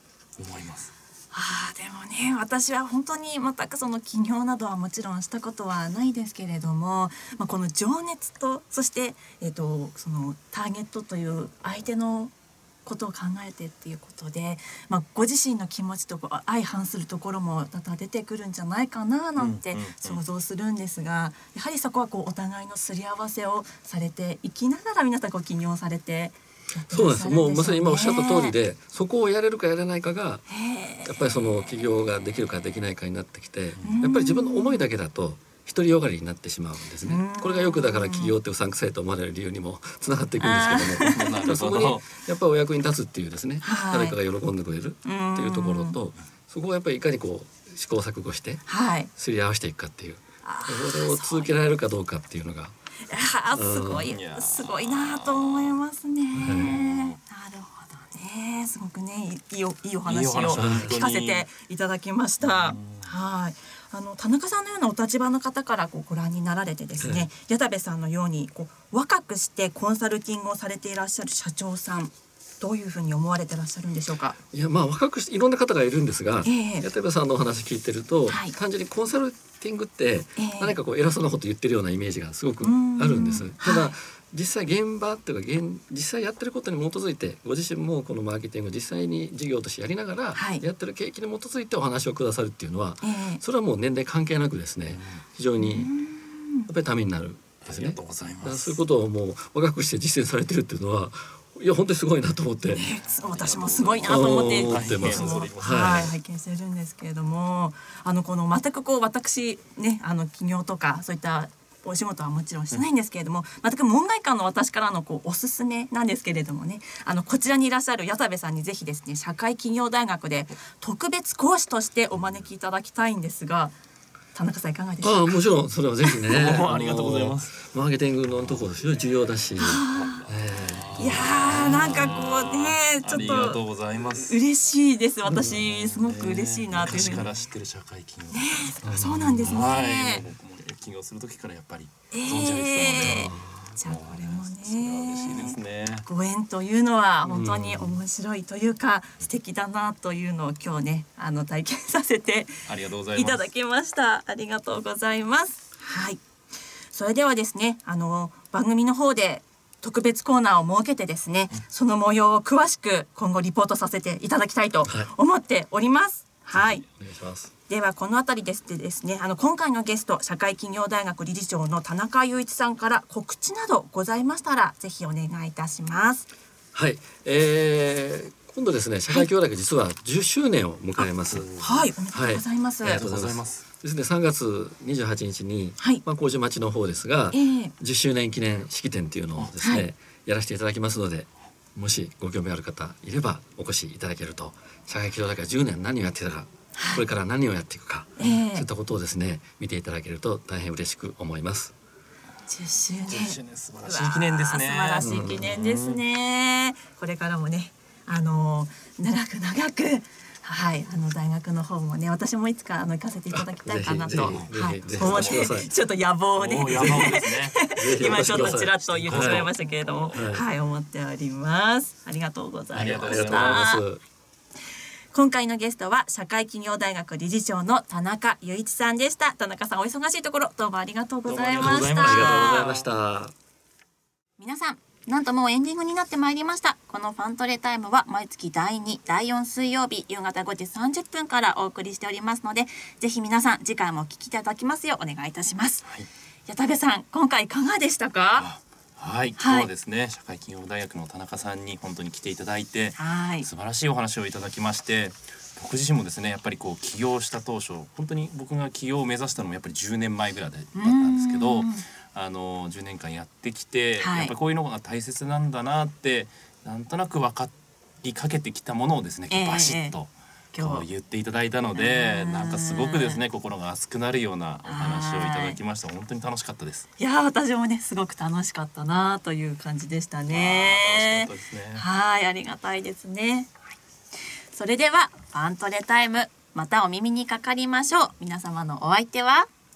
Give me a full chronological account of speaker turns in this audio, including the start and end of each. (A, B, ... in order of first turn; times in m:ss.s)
0:00.4-0:00.9 A
0:01.3-0:12.3 B
0:12.8-0:28.6 B
0:19.4-0:20.2 A
0:26.9-0:30.5 C
0:30.5-0:31.6 B
0:31.0-0:48.6 C
0:33.8-0:34.1 A
0:33.8-0:34.9 B
0:37.0-0:38.3 B
0:40.4-0:41.3 B
0:41.0-0:42.0 A
0:43.6-0:44.2 B
0:45.0-0:46.0 B
0:48.7-0:49.1 B
0:49.2-0:52.7 C
0:50.4-0:51.5 B
0:53.1-1:14.4 B
0:53.5-0:54.1 C
0:54.0-0:55.8 A
0:56.3-0:57.2 A
0:56.4-0:56.8 C
1:00.1-1:01.5 A
1:00.6-1:00.9 C
1:02.4-1:03.1 A
1:07.0-1:07.3 C
1:14.5-1:35.9 C
1:16.4-1:16.9 B
1:18.3-1:18.6 B
1:20.4-1:20.8 B
1:22.6-1:23.9 B
1:30.4-1:30.6 B
1:33.0-1:33.4 B
1:34.9-1:35.2 A
1:35.6-1:36.7 B
1:36.7-1:42.8 C
1:37.6-1:38.8 A
1:42.7-2:03.8 B
1:43.1-1:46.0 A
1:44.0-1:46.1 C
2:04.4-2:05.4 B
2:05.0-2:12.1 C
2:06.3-2:07.6 A
2:08.4-2:08.6 A
2:09.6-2:10.3 B
2:09.7-2:14.4 A
2:11.0-2:13.6 B
2:14.1-2:17.3 B
2:15.3-2:18.9 A
2:18.3-2:20.2 B
2:18.8-2:19.7 C
2:19.4-2:26.1 A
2:22.1-2:36.2 B
2:23.0-2:23.6 C
2:27.2-2:28.0 C
2:32.7-2:33.5 A
2:36.9-2:46.8 B
2:44.8-2:45.1 C
2:46.6-2:47.5 C
2:47.7-2:56.3 B
2:56.7-3:01.6 C
3:01.0-3:01.9 A
3:01.6-3:03.0 B
3:02.1-3:21.7 C
3:02.9-3:03.6 A
3:07.3-3:07.7 B
3:09.6-3:09.8 B
3:16.8-3:17.0 B
3:18.2-3:18.7 B
3:22.5-3:43.8 B
3:23.1-3:26.0 A
3:25.0-3:25.5 C
3:33.3-3:35.7 C
3:34.2-3:35.5 A
3:36.4-3:40.2 A
3:36.7-3:37.1 C
3:37.7-3:39.5 C
3:40.1-3:40.4 C
3:42.7-3:43.7 A
3:42.7-3:44.0 C
3:45.1-3:52.7 B
3:51.3-3:52.9 A
3:51.6-3:53.3 C
3:54.4-4:05.9 B
4:06.5-4:08.5 B
4:08.4-4:36.9 A
4:09.4-4:09.7 B
4:13.0-4:13.5 B
4:20.8-4:21.8 B
4:24.0-4:24.3 B
4:29.3-4:30.0 B
4:30.5-4:30.9 B
4:31.7-4:33.2 B
4:34.7-4:35.6 B
4:37.0-4:43.5 B
4:40.3-4:41.9 A
4:44.5-4:49.5 B